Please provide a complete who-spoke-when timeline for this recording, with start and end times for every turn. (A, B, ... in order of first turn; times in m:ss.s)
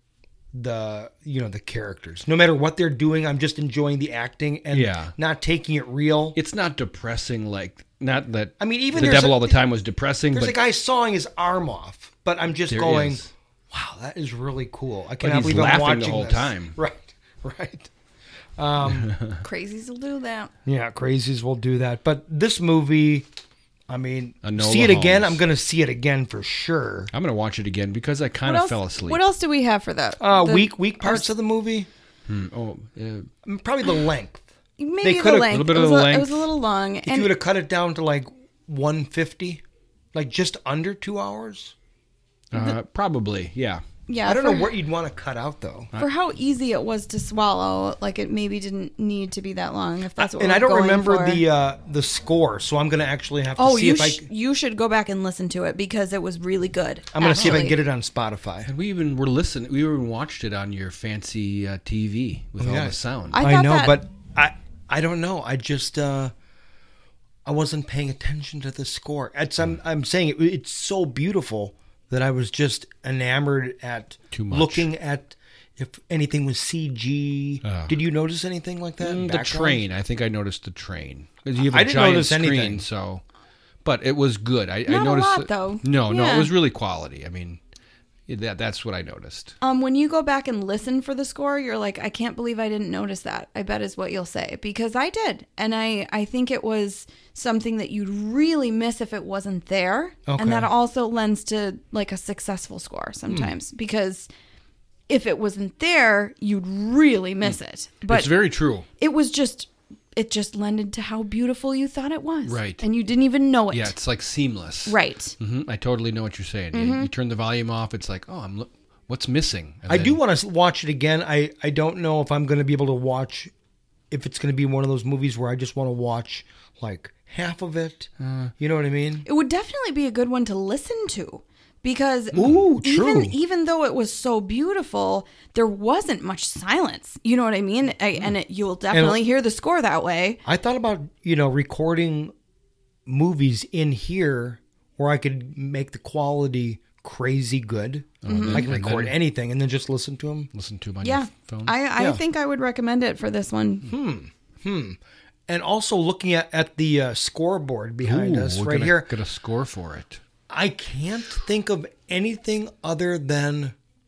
0:00.5-0:06.4 A
0:04.7-0:05.1 B
0:06.4-0:10.6 B
0:08.6-0:09.6 A
0:10.3-0:17.9 A
0:12.7-0:13.3 B
0:15.2-0:16.8 B
0:18.6-0:19.1 A
0:18.9-0:19.4 B
0:19.4-0:20.5 C
0:20.6-0:23.3 A
0:23.9-0:27.1 A
0:24.4-0:25.4 B
0:27.1-0:29.2 B
0:28.4-0:31.3 C
0:30.2-0:31.9 A
0:32.3-0:33.3 B
0:33.4-0:34.5 A
0:34.8-0:37.4 C
0:35.0-0:35.7 A
0:35.5-0:36.5 B
0:37.0-0:39.6 A
0:40.1-0:41.8 A
0:42.5-0:43.8 B
0:44.1-0:44.7 C
0:44.2-0:45.9 A
0:46.0-0:51.4 C
0:50.2-0:54.3 A
0:53.6-0:57.8 C
0:57.1-0:58.7 A
0:57.3-0:57.7 B
0:58.7-1:03.4 B
1:02.6-1:06.3 A
1:03.3-1:04.0 C
1:07.4-1:19.8 A
1:14.3-1:14.9 B
1:17.6-1:18.0 B
1:19.0-1:23.2 B
1:21.6-1:22.8 A
1:23.8-1:27.6 B
1:24.9-1:26.5 C
1:28.3-1:29.6 B
1:29.6-1:44.3 C
1:40.3-1:40.7 A
1:45.1-1:48.3 C
1:48.1-1:48.9 B
1:49.0-1:53.9 C
1:52.4-1:52.8 B
1:53.7-2:00.2 B
1:54.9-1:55.4 C
1:56.7-1:57.1 C
1:59.9-2:03.5 A
2:04.1-2:09.3 A
2:08.2-2:08.5 B
2:09.2-2:20.4 C
2:12.3-2:13.4 A
2:18.9-2:19.2 A
2:20.4-2:22.3 A
2:23.1-2:30.5 A
2:28.2-2:29.2 B
2:28.3-2:28.6 C
2:30.5-2:31.7 B
2:31.0-2:33.9 C
2:32.0-2:32.2 A
2:33.8-2:39.1 A
2:38.0-2:40.2 B
2:40.5-2:43.8 A